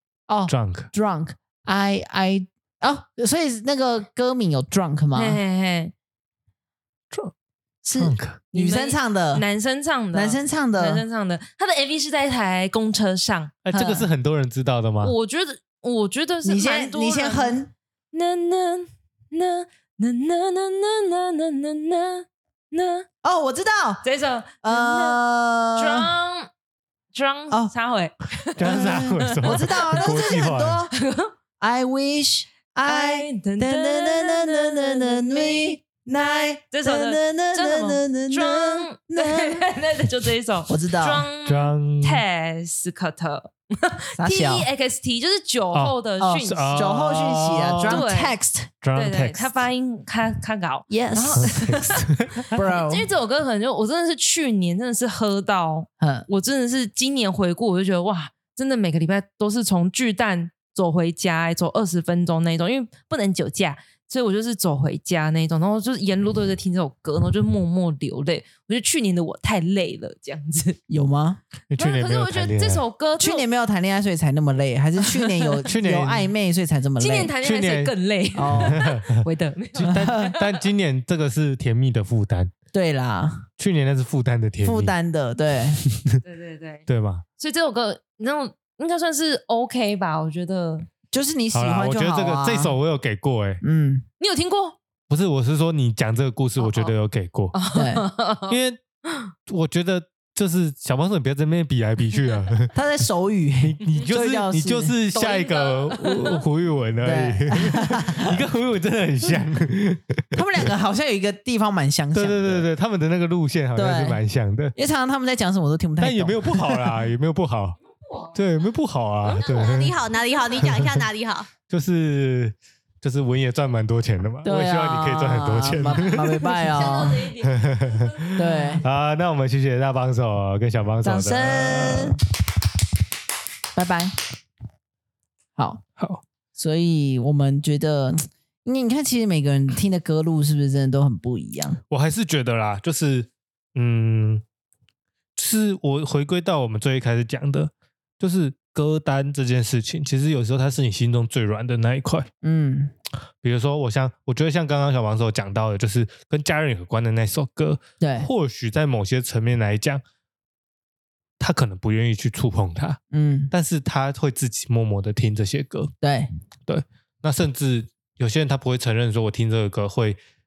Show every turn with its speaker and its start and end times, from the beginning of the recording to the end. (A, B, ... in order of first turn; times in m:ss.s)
0:00.3-0:05.4 A
0:00.5-0:00.9 B
0:05.2-0:05.9 C
0:07.8-0:09.4 A
0:08.0-0:08.4 B
0:08.5-0:13.5 C
0:10.1-0:11.0 A
0:13.6-0:15.1 B
0:13.7-0:14.1 A
0:15.0-0:17.6 C
0:16.4-0:17.7 A
0:18.1-0:23.1 C
0:23.2-0:24.0 A
0:24.0-0:25.2 C
0:24.6-0:26.1 A
0:25.8-0:26.5 C
0:27.1-0:30.2 C
0:28.6-0:30.8 B
0:28.6-0:31.0 A
0:30.9-0:31.3 C
0:31.6-0:39.7 A
0:32.8-0:35.7 C
0:36.7-0:46.9 C
0:40.7-0:41.2 A
0:41.4-0:42.2 B
0:44.2-0:44.7 A
0:45.7-0:48.1 B
0:46.2-0:48.7 A
0:47.9-0:48.4 C
0:48.8-0:49.4 B
0:48.9-1:10.8 C
0:50.9-0:51.6 A
0:51.4-0:52.6 B
0:52.5-0:53.1 A
0:56.0-0:56.3 A
1:10.9-1:11.4 A
1:11.7-1:12.8 B
1:11.8-1:13.5 C
1:13.2-1:17.3 A
1:15.0-1:15.6 C
1:15.7-1:16.3 B
1:17.0-1:20.6 C
1:17.4-1:17.9 B
1:18.4-1:18.8 A
1:18.5-1:19.2 B
1:19.8-1:22.5 B
1:19.8-1:20.3 A
1:22.7-1:23.5 A
1:23.6-1:24.9 B
1:24.6-1:25.8 A
1:25.9-1:26.2 B
1:26.2-1:26.9 C
1:26.9-1:27.2 B
1:27.4-1:30.9 C
1:31.1-1:32.8 A
1:31.5-1:33.6 B
1:33.6-1:34.0 A
1:34.2-1:34.8 C
1:35.1-1:37.5 B
1:36.6-1:36.9 C
1:37.5-1:39.3 C
1:37.7-1:38.1 A
1:38.5-1:38.8 B
1:39.5-1:42.7 B
1:42.7-1:45.0 A
1:43.6-1:50.7 B
1:45.1-1:46.4 C
1:47.0-1:48.4 A
1:50.3-1:52.7 A
1:52.1-1:54.7 B
1:53.8-1:54.2 A
1:54.8-1:57.0 A
1:56.0-1:57.8 B
1:58.1-1:58.3 C
1:58.3-2:00.0 B
1:59.4-2:01.5 D
2:00.6-2:01.1 B
2:01.7-2:12.2 B
2:04.4-2:07.3 A
2:06.1-2:08.7 C
2:08.4-2:08.8 A
2:11.0-2:12.2 A
2:13.7-2:14.2 A
2:15.6-2:15.8 A
2:16.0-2:16.2 B
2:16.6-2:21.8 A
2:21.9-2:24.4 B
2:25.4-2:32.3 B
2:32.4-2:32.9 A
2:33.4-2:40.0 B
2:38.0-2:38.3 A
2:41.4-2:43.0 B
2:43.1-2:43.5 A
2:43.5-2:45.9 B
2:46.0-2:46.3 A
2:46.7-2:50.2 B